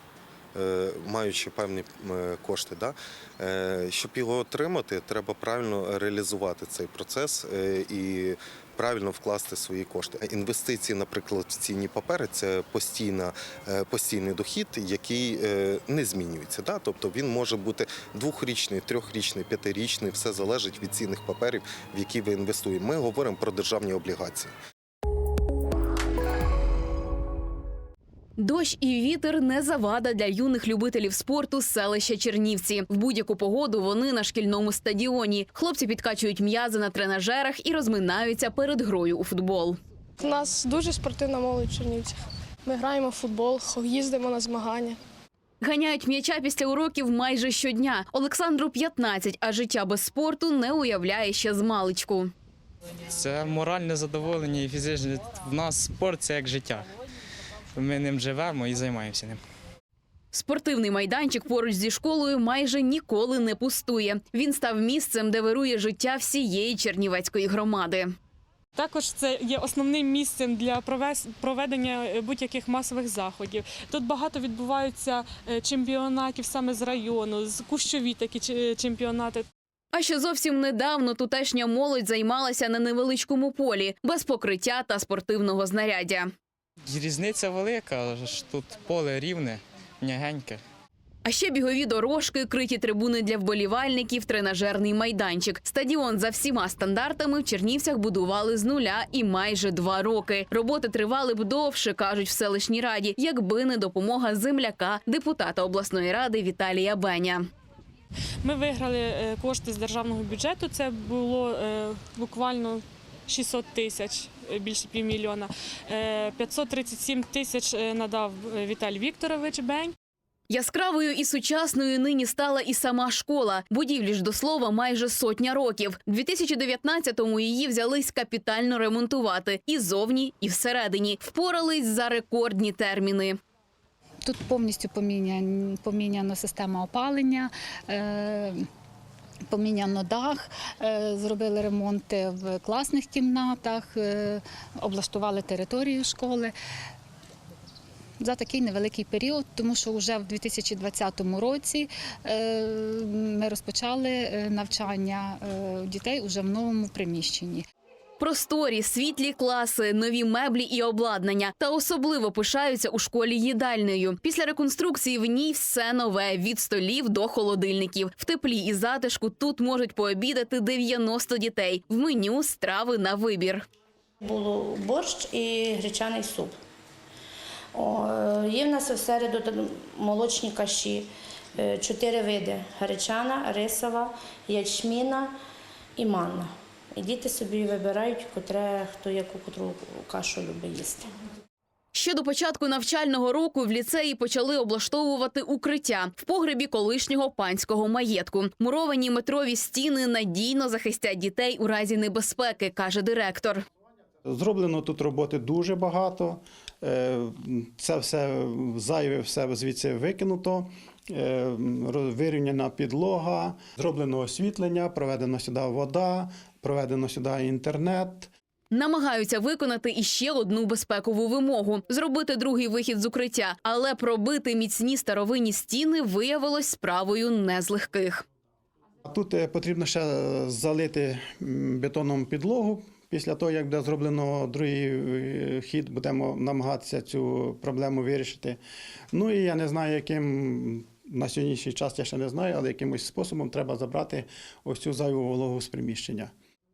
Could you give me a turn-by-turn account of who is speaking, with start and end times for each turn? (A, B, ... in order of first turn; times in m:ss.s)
0:00.5-0:24.5 A
0:28.4-0:39.8 B
0:40.2-0:45.0 C
0:45.6-0:52.3 B
0:53.1-0:56.9 D
0:57.8-0:59.4 D
1:00.3-1:08.1 B
1:08.8-1:19.5 E
1:19.9-1:26.3 B
1:26.8-1:30.6 D
1:31.2-1:47.5 B
1:48.4-1:59.9 E
2:00.5-2:13.4 B
2:14.2-2:18.6 F
2:19.5-2:26.5 F
2:28.2-2:37.6 F
2:38.2-2:53.6 B
2:54.2-2:56.6 G
2:57.7-3:05.4 G
3:06.0-3:11.1 G
3:11.9-3:23.6 B
3:24.2-3:38.3 H
3:38.7-3:48.2 B
3:49.0-3:58.6 H
3:59.1-4:06.3 H